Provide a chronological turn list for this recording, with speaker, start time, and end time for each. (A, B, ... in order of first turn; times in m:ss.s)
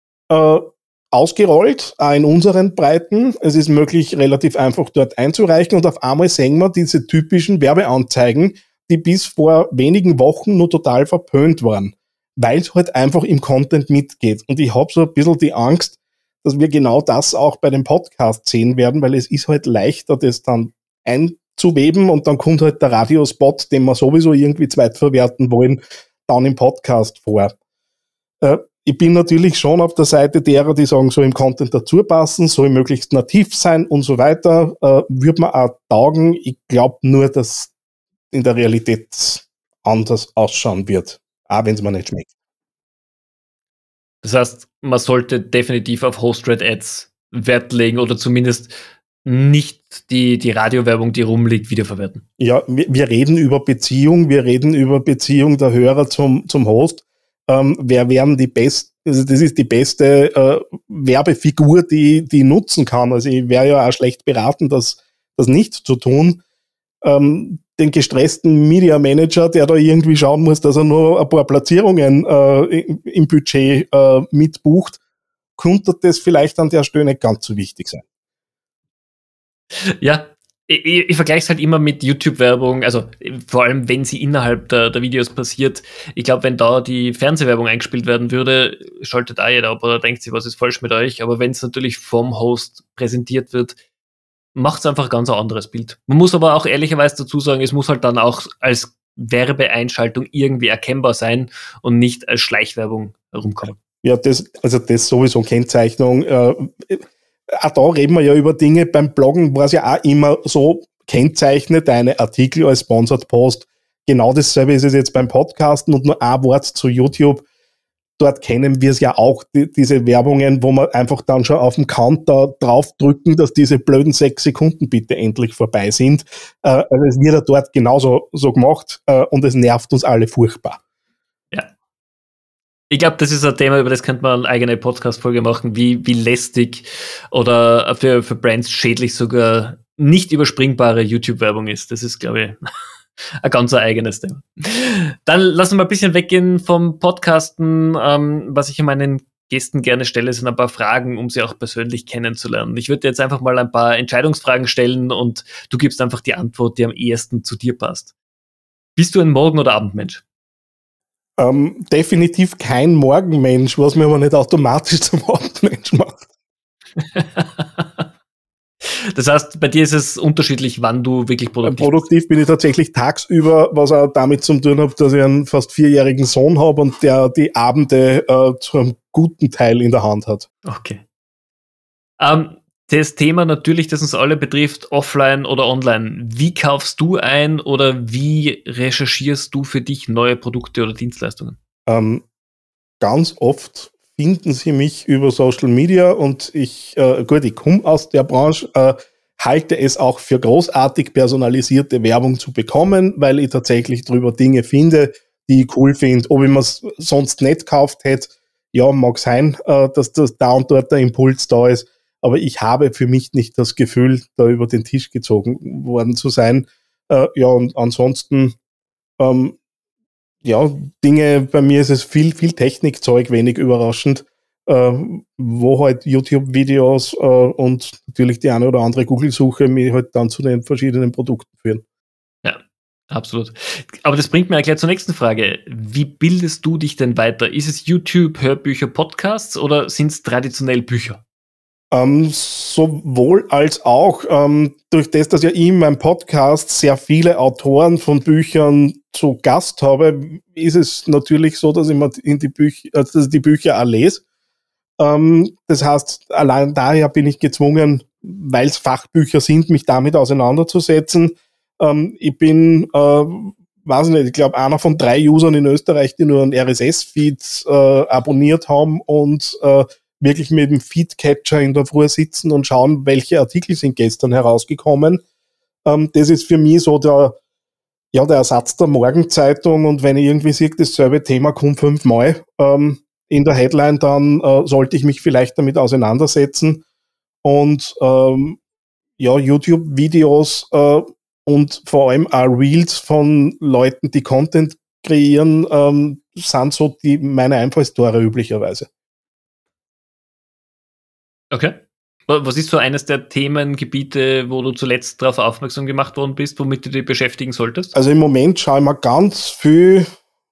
0:00.3-0:27.5 A
0:28.4-0:37.7 A
0:38.3-0:42.3 A
0:44.2-0:52.2 B
0:52.4-1:06.4 A
1:07.0-1:15.0 A
1:15.6-1:18.0 A
1:20.0-1:33.8 B
1:34.5-1:43.8 B
1:44.0-1:57.4 A
1:58.2-2:10.8 A
2:12.9-2:22.6 B
2:23.4-2:38.1 B
2:39.0-2:40.2 B
2:41.4-2:46.2 A
2:47.1-2:47.8 B
2:49.1-2:52.0 B
2:51.6-3:00.5 A
3:00.6-3:01.0 B
3:02.2-3:11.6 B
3:11.9-3:12.2 A
3:13.0-3:38.5 A
3:39.2-3:39.6 A
3:40.4-3:51.8 A
3:53.1-4:01.2 B
4:01.9-4:14.2 A
4:15.0-4:35.2 A
4:35.8-4:37.3 A
4:38.1-4:46.8 A
4:47.4-4:48.6 A
4:49.2-4:58.9 A
5:01.5-5:07.9 B
5:07.9-5:10.1 A